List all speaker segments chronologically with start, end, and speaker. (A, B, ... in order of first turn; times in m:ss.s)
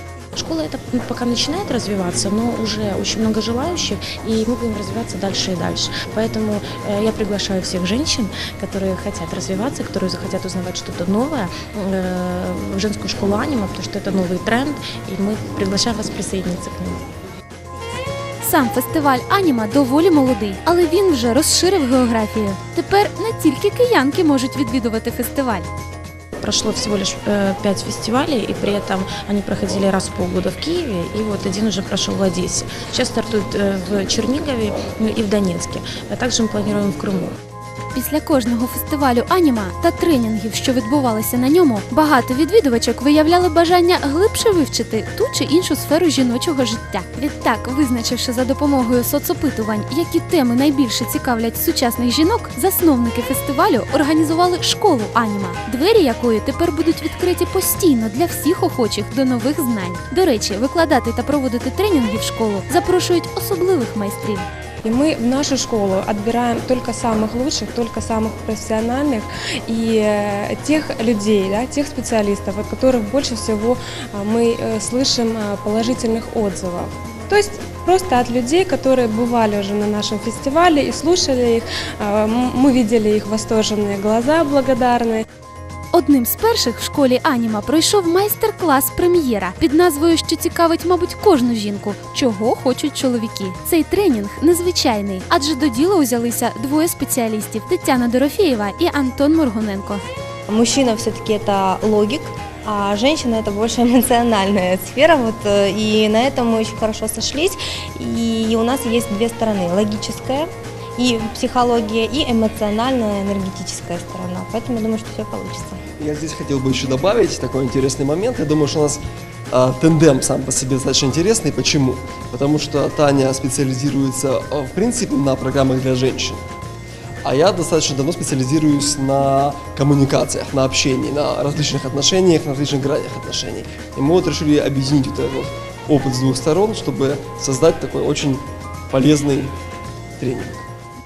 0:00.4-0:17.0 A
0:18.4-0:25.7 B
0:26.4-0:37.4 A
0:37.9-1:04.5 B
1:04.8-1:25.2 C
1:25.9-1:40.0 B
1:40.5-1:55.8 D
1:56.0-2:06.4 E
2:07.2-2:19.5 E
2:20.2-2:20.6 E